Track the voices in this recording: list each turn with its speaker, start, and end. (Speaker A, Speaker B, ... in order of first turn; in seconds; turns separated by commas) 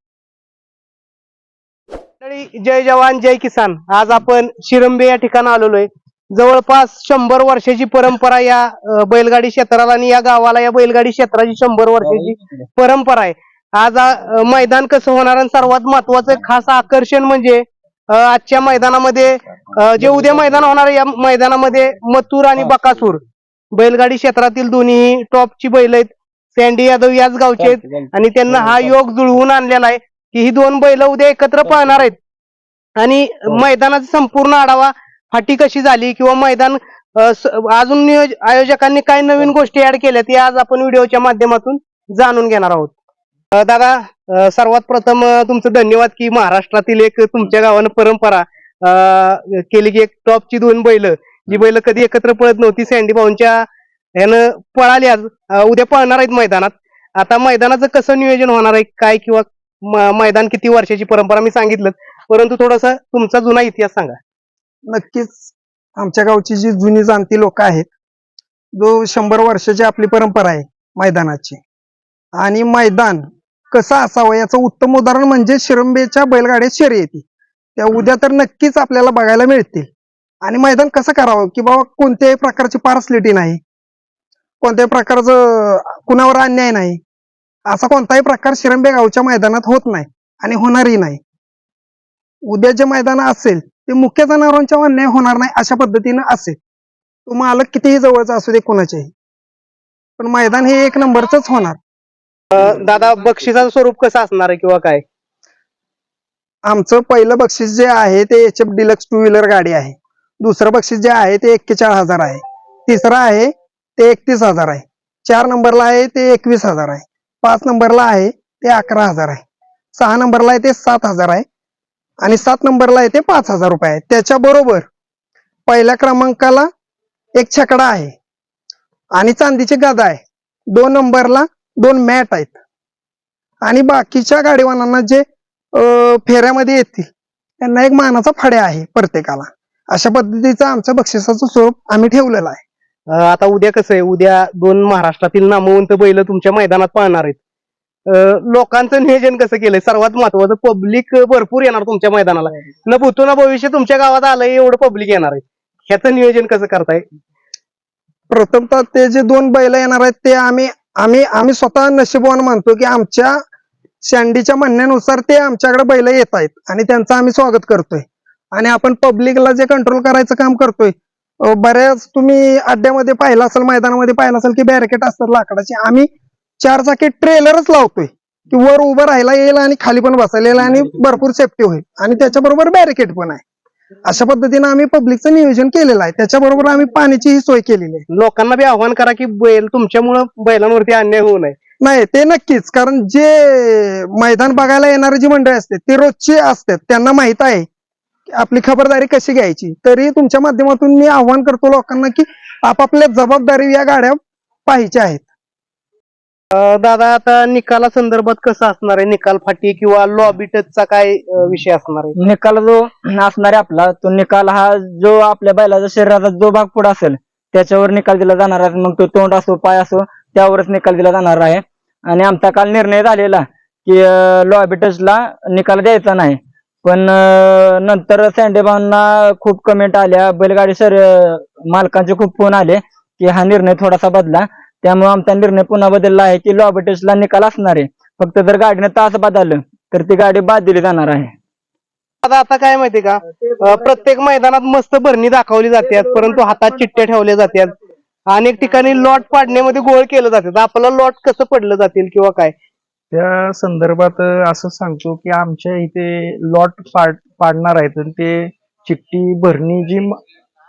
Speaker A: 2.2-23.2, Speaker A: 23.8-32.1, Speaker A: 33.0-42.9, Speaker A: 43.5-53.6, Speaker A: 54.2-64.2, Speaker B: 64.9-67.9, Speaker B: 68.7-71.6, Speaker B: 72.4-77.2, Speaker B: 77.8-79.9, Speaker B: 80.4-83.6, Speaker B: 84.6-87.0, Speaker B: 87.7-91.2, Speaker B: 92.5-96.6, Speaker B: 97.3-99.1, Speaker B: 100.2-101.8, Speaker A: 102.5-105.0, Speaker B: 106.6-119.4, Speaker B: 119.9-121.4, Speaker B: 122.2-124.9, Speaker B: 125.7-126.7, Speaker B: 127.3-128.1, Speaker B: 129.1-132.6, Speaker B: 133.6-137.1, Speaker B: 137.6-142.6, Speaker A: 143.1-147.4, Speaker A: 148.1-157.0, Speaker B: 158.3-163.4, Speaker B: 164.0-176.1, Speaker B: 176.6-183.4, Speaker B: 184.0-188.0, Speaker A: 188.1-191.6, Speaker B: 191.8-197.7, Speaker B: 198.3-205.3, Speaker A: 206.5-212.2, Speaker C: 212.2-241.3, Speaker A: 242.2-247.7, Speaker A: 248.3-252.5, Speaker D: 253.1-260.2